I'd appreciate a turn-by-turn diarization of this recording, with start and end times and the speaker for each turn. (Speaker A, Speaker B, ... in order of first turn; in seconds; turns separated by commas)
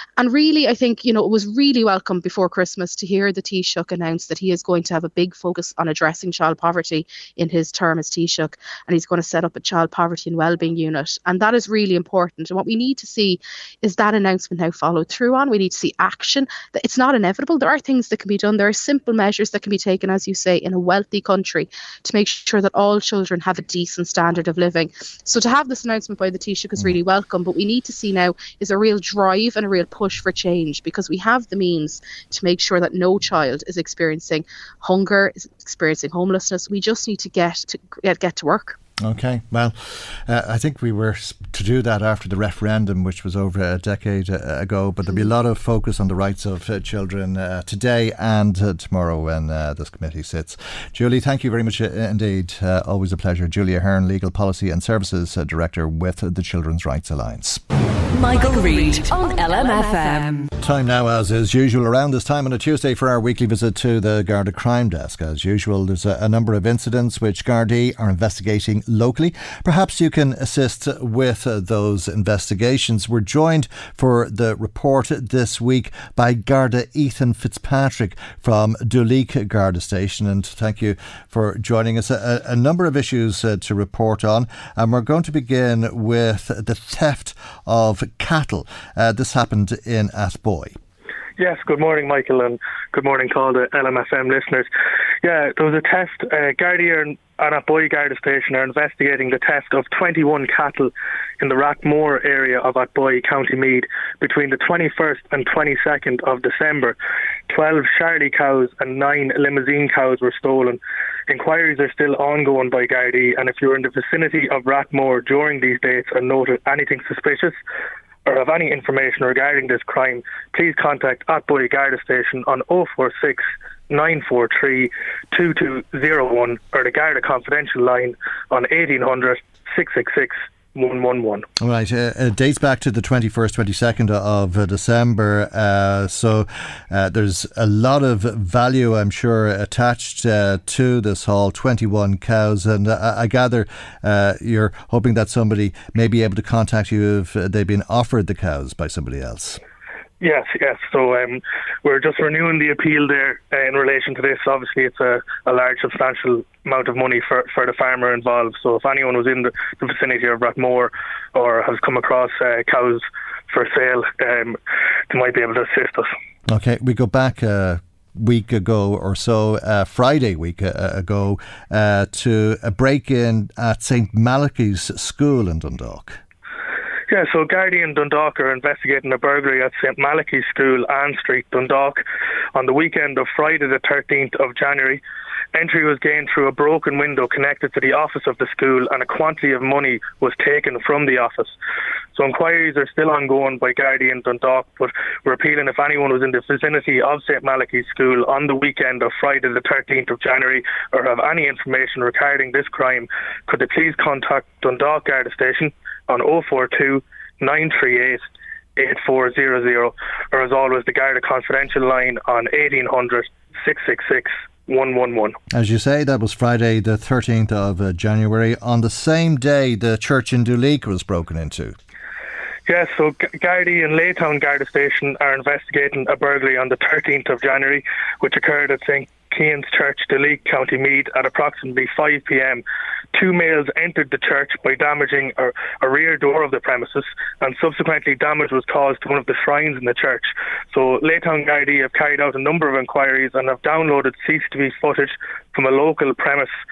Speaker A: 0.2-38.8, Speaker B: 39.0-57.6, Speaker C: 58.1-60.5, Speaker B: 60.6-90.8, Speaker D: 91.4-94.7, Speaker D: 95.2-107.0, Speaker D: 107.5-117.6, Speaker D: 118.2-131.5, Speaker B: 131.6-149.6, Speaker D: 150.2-164.6, Speaker D: 165.1-166.1, Speaker B: 166.5-176.2, Speaker D: 177.1-182.0, Speaker D: 182.5-185.0, Speaker D: 185.5-191.5, Speaker D: 192.1-208.2, Speaker D: 208.8-215.3, Speaker B: 215.5-221.8, Speaker D: 222.7-232.6, Speaker D: 233.1-246.5